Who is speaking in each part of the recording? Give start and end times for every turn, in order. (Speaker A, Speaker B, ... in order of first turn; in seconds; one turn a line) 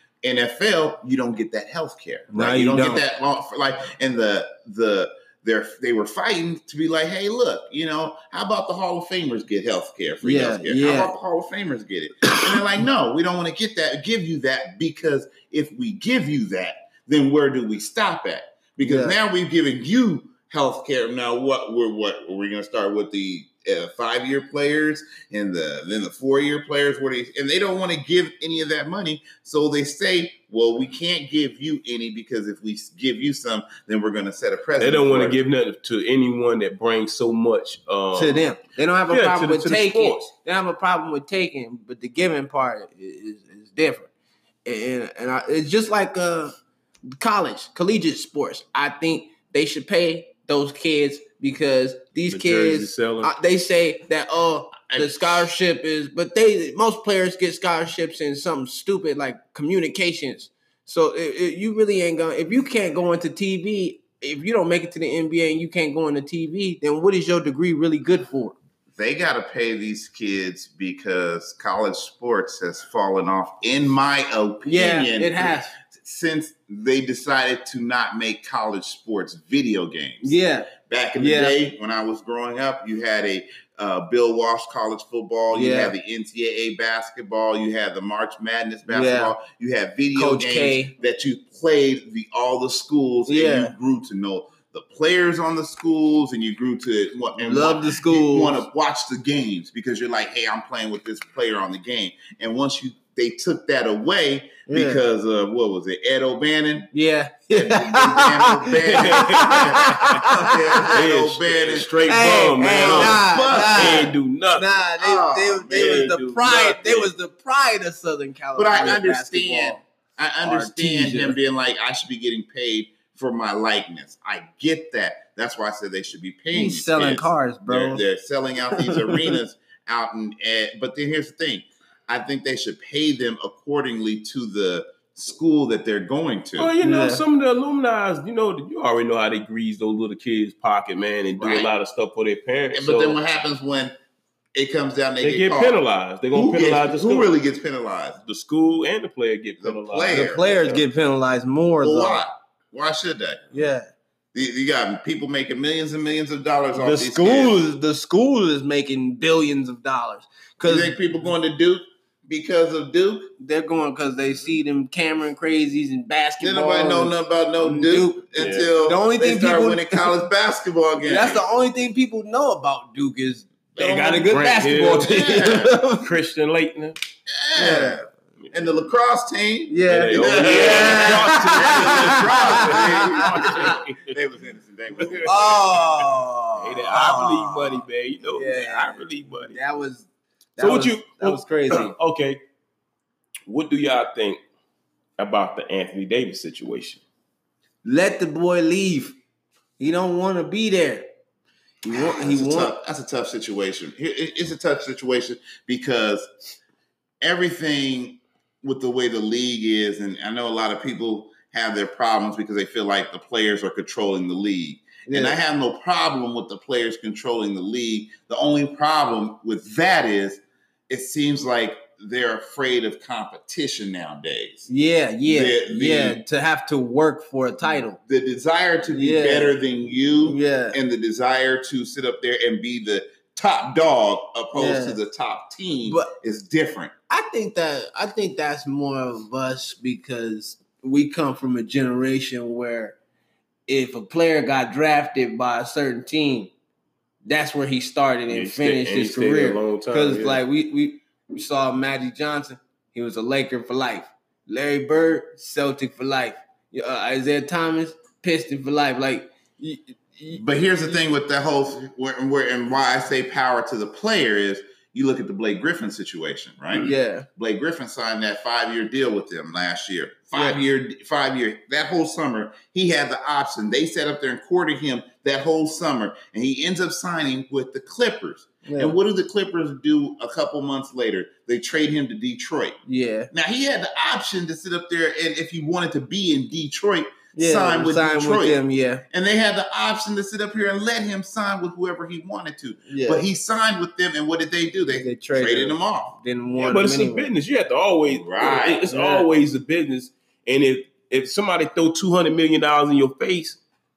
Speaker A: 0.2-35.4
Speaker B: 2.3-3.0
Speaker B: 10.2-11.1
Speaker B: 12.3-12.5
Speaker B: 18.8-19.2
Speaker C: 34.8-38.5
Speaker B: 38.1-44.1
Speaker C: 39.1-40.3
Speaker B: 44.6-46.6
Speaker B: 47.1-68.6
Speaker C: 52.3-53.3
Speaker A: 54.9-55.5
Speaker A: 69.0-106.9
Speaker B: 74.7-75.7
Speaker B: 80.2-81.6
Speaker B: 85.5-85.9
Speaker B: 88.9-89.3
Speaker B: 90.2-90.9
Speaker B: 93.3-93.7
Speaker B: 97.4-98.6
Speaker B: 104.7-105.0
Speaker B: 106.9-110.9
Speaker A: 107.5-114.1
Speaker C: 108.8-114.7
Speaker B: 112.0-119.8
Speaker A: 115.0-116.2
Speaker C: 115.7-117.1
Speaker A: 118.6-136.7
Speaker B: 120.4-121.4
Speaker B: 126.5-128.0
Speaker B: 128.7-129.4
Speaker C: 136.6-143.2
Speaker B: 136.8-137.2
Speaker A: 141.4-141.7
Speaker A: 142.7-143.9
Speaker A: 144.6-145.8
Speaker C: 145.2-147.3
Speaker A: 146.3-148.2
Speaker C: 148.2-150.8
Speaker A: 149.6-150.6
Speaker B: 150.1-152.2
Speaker A: 151.8-153.6
Speaker B: 153.5-153.9
Speaker A: 154.3-157.6
Speaker B: 156.7-161.0
Speaker A: 160.6-163.3
Speaker B: 163.4-170.1
Speaker A: 166.4-171.4
Speaker C: 168.4-168.7
Speaker B: 171.1-176.1
Speaker A: 173.8-174.1
Speaker C: 173.8-177.0
Speaker A: 175.0-175.8
Speaker A: 177.3-178.0
Speaker B: 177.6-178.0
Speaker A: 178.5-185.8
Speaker B: 179.7-183.7
Speaker C: 179.9-184.1
Speaker C: 185.0-185.6
Speaker B: 185.2-191.9
Speaker C: 186.6-189.6
Speaker C: 190.6-192.4
Speaker C: 193.5-194.4
Speaker C: 195.2-197.0
Speaker B: 197.8-199.2
Speaker B: 199.8-201.1
Speaker B: 201.8-202.7
Speaker A: 201.9-206.3
Speaker A: 207.2-224.7
Speaker B: 215.1-215.4
Speaker B: 224.7-228.0
Speaker A: 225.3-226.2
Speaker A: 228.1-236.9
Speaker B: 228.9-229.5
Speaker B: 230.2-230.8
Speaker B: 234.5-235.0
Speaker B: 235.9-236.1
Speaker B: 237.1-243.0
Speaker B: 243.7-246.5
Speaker B: 247.2-260.4
Speaker C: 248.3-250.4
Speaker A: 260.3-282.8
Speaker B: 266.8-267.3
Speaker B: 270.3-270.6
Speaker B: 278.6-279.0
Speaker B: 282.9-283.3
Speaker A: 283.3-296.2
Speaker B: 287.4-289.0
Speaker B: 292.9-293.3
Speaker B: 294.9-297.3
Speaker C: 296.6-303.6
Speaker A: 298.1-298.9
Speaker B: 298.9-299.3